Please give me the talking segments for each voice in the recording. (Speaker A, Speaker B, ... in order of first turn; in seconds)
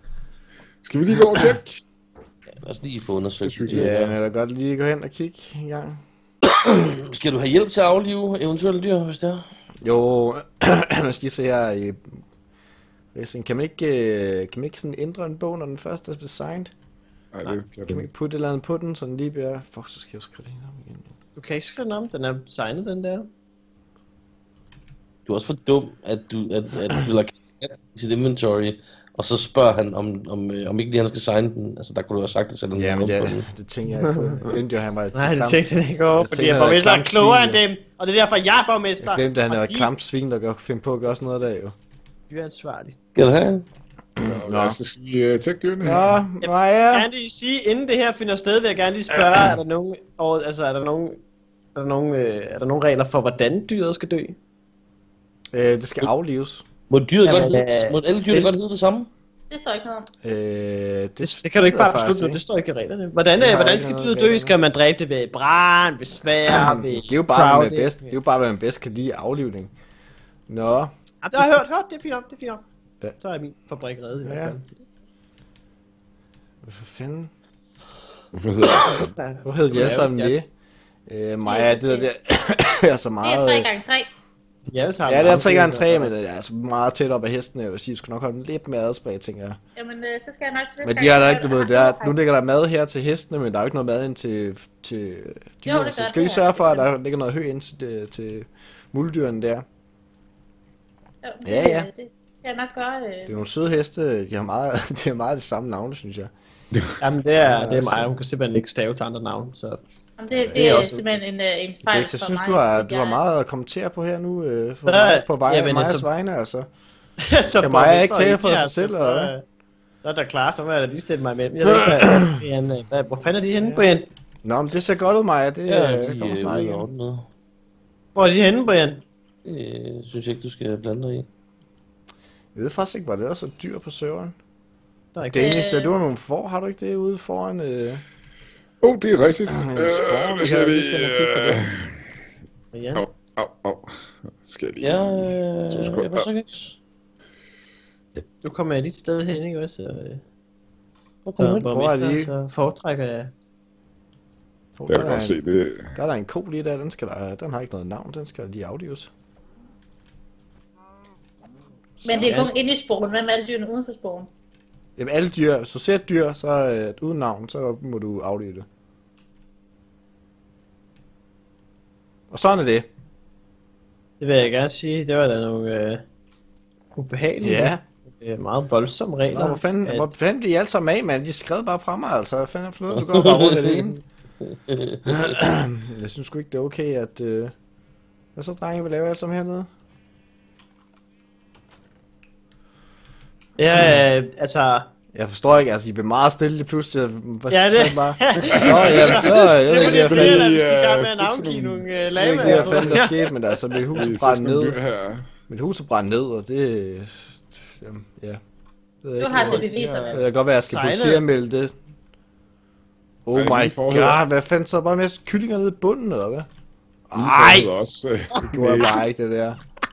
Speaker A: 0.8-1.8, 3.4-4.0, 17.3-18.1, 44.2-46.2, 78.3-79.1, 138.8-141.9, 142.9-146.3, 154.9-155.9, 198.5-202.7, 203.9-205.3, 213.3-214.2, 217.1-219.0
Speaker B: 2.5-4.2, 6.5-9.4, 25.2-33.4, 43.1-43.6, 56.9-59.1, 125.7-127.2, 129.4-131.3, 144.8-146.8, 151.2-151.7, 182.9-185.0
Speaker C: 3.7-6.0, 9.8-12.2, 13.1-16.7, 17.9-21.1, 32.7-35.6, 36.1-37.6, 39.0-41.7, 44.2-44.8, 45.8-47.1, 55.5-56.6, 60.2-62.4, 63.4-64.5, 66.5-69.7, 70.5-70.9, 74.2-74.6, 76.6-77.3, 79.4-80.5, 81.1-83.7, 85.0-89.6, 90.8-99.6, 101.4-101.9, 103.3-106.3, 107.4-108.1, 111.8-116.7, 117.6-119.3, 121.9-122.2, 124.4-126.9, 132.5-134.3, 135.3-138.0, 139.5-141.7, 151.6-152.3, 154.8-155.4, 155.9-159.1, 162.0-162.3, 165.0-168.6, 172.3-172.9, 177.4-177.8, 179.3-184.0, 185.1-187.5, 188.3-189.7, 195.1-200.5, 201.7-204.8, 205.5-208.4, 209.0-211.7, 213.2-216.5, 217.1-217.7, 218.4-219.6
Speaker D: 21.4-23.3, 34.1-34.6, 35.1-39.9, 42.3-43.0, 46.4-51.2, 51.7-54.4, 57.2-58.5, 61.2-68.2, 71.2-72.6, 73.2-74.8, 78.7-80.4, 84.7-86.1, 107.0-109.8, 110.5-111.2, 114.8-116.1, 117.2-119.4, 120.0-124.1, 128.1-129.0, 135.1-135.6, 142.7-143.0, 148.4-150.2, 151.4-153.3, 162.2-162.5, 174.2-176.0, 176.9-180.1, 193.6-194.9, 197.5-203.3, 209.3-211.2
Speaker E: 59.5-60.1, 81.4-82.1, 83.2-84.1, 89.8-92.2, 95.6-96.9, 101.2-103.4, 110.2-113.2, 135.4-135.9, 162.0-164.3, 209.2-210.2